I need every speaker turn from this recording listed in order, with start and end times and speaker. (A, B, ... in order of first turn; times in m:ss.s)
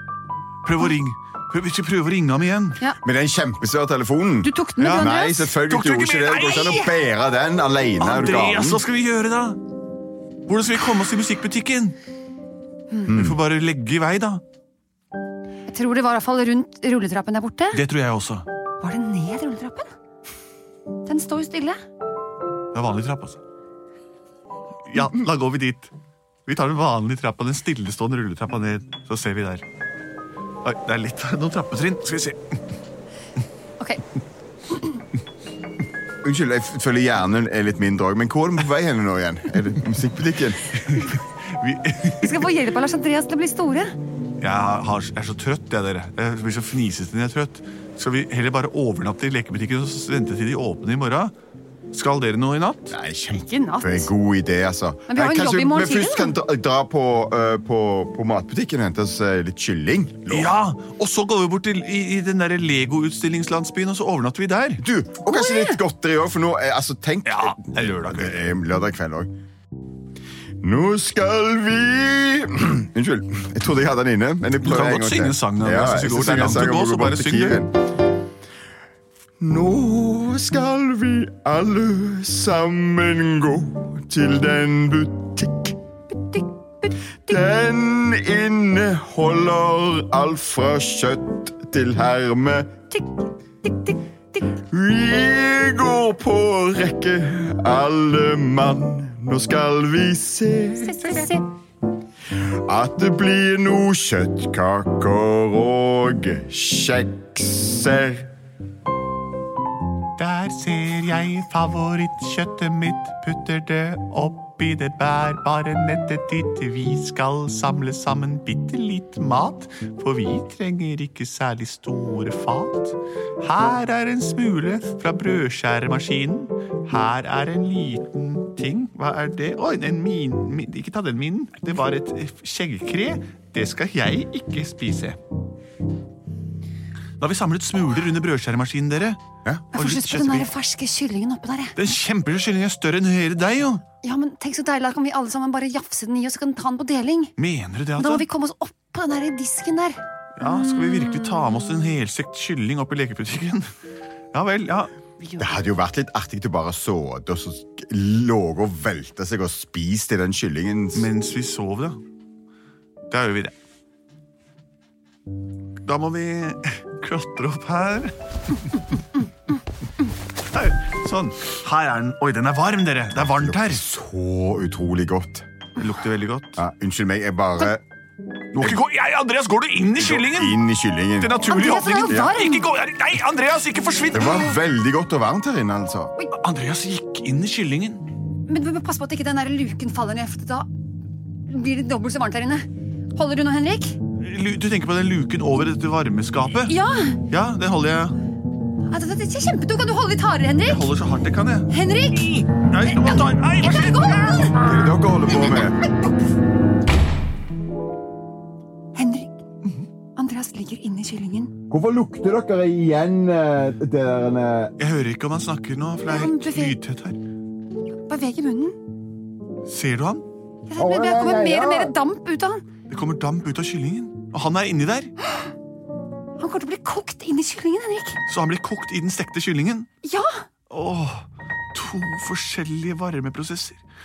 0:00.6-0:02.8 A
0:03.0-0:08.8 B
0:04.4-0:05.5 C
0:04.8-0:06.9 A
0:08.0-0:09.6 A
0:10.5-0:12.0 A
0:13.0-0:13.4 B
0:13.1-0:14.4 A
0:15.7-0:17.8 C
0:17.7-0:18.4 A
0:18.8-0:19.9 C
0:21.0-0:21.8 C
0:22.7-0:23.4 A
0:24.9-0:25.9 A
0:26.4-0:29.6 A
0:30.6-0:32.6 A
0:36.2-0:40.7 B
0:40.8-0:42.4 A
0:42.2-0:43.9 C
0:44.4-0:51.3 A
0:51.9-0:53.0 A
0:52.9-1:00.6 B
0:53.4-0:54.1 C
0:55.1-0:56.3 C
1:00.3-1:04.8 A
1:04.8-1:09.3 B
1:05.3-1:05.8 C
1:07.2-1:08.5 A
1:10.6-1:17.8 B
1:14.6-1:17.6 A
1:19.4-1:25.8 B
1:26.1-1:27.0 C
1:27.2-1:32.8 B
1:32.9-1:34.4 C
1:34.6-1:41.3 B
1:40.8-1:41.5 C
1:42.4-1:48.3 B
1:50.2-2:15.2 A
2:17.2-2:19.2 A
2:19.7-2:21.7 C
2:19.7-2:20.5 A
2:21.8-2:23.8 A
2:24.0-2:27.3 C
2:27.4-2:28.3 A
2:28.0-2:30.0 C
2:30.4-2:33.7 A
2:30.5-2:31.1 C
2:34.3-2:34.9 A
2:35.2-2:35.6 C
2:35.4-2:41.1 B
2:40.9-2:42.0 A
2:43.1-2:43.5 A
2:45.8-2:48.7 A
2:50.5-2:53.8 A
2:53.2-2:55.4 B
2:55.8-2:56.6 A
2:56.6-2:57.8 B
2:58.5-3:00.6 A
3:00.0-3:01.4 B
3:01.2-3:04.6 A
3:01.5-3:02.6 C
3:04.1-3:06.1 B
3:06.3-3:08.1 A
3:08.5-3:10.7 C
3:11.5-3:14.0 C
3:14.2-3:16.8 A
3:16.6-3:17.2 C
3:17.3-3:18.2 A
3:18.9-3:20.9 C
3:20.6-3:24.5 A
3:21.7-3:24.6 C
3:24.6-3:25.8 B
3:28.9-3:29.3 C
3:30.2-3:31.5 C
3:31.7-3:34.7 B
3:34.8-3:37.2 A
3:36.1-3:36.8 C
3:38.1-3:38.8 C
3:39.6-3:40.2 A
3:40.7-3:42.6 C
3:40.8-3:41.9 B
3:42.9-3:45.1 A
3:46.4-3:48.2 C
3:48.3-3:49.9 A
3:50.0-3:50.4 C
3:50.7-3:53.8 A